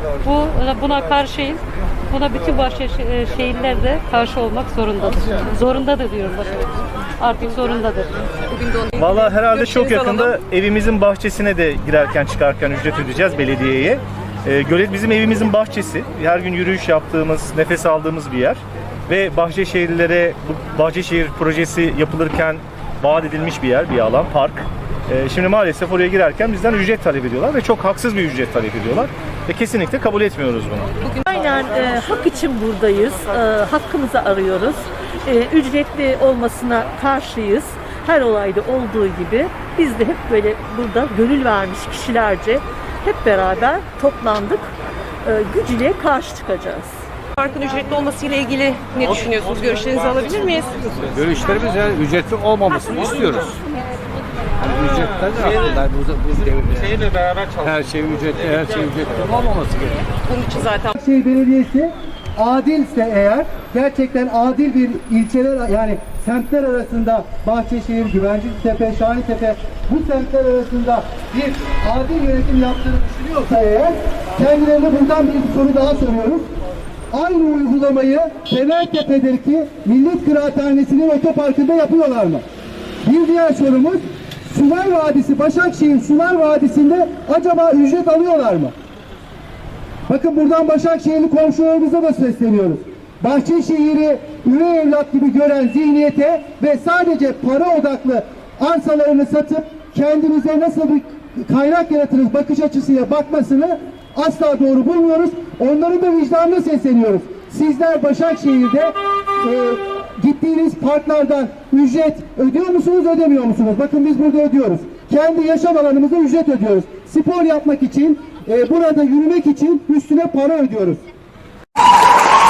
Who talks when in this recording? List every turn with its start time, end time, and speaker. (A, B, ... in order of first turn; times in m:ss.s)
0:00.2-0:08.1 A
0:08.5-0:10.4 B
0:09.0-0:30.9 C
0:31.2-0:44.7 D
0:45.2-0:46.9 D
0:47.4-0:50.9 B
0:51.0-0:53.6 E
0:54.6-1:00.1 E
1:00.3-1:00.9 B
1:01.0-1:16.4 F
1:17.1-1:22.4 F
1:23.0-1:28.7 F
1:30.1-2:01.0 F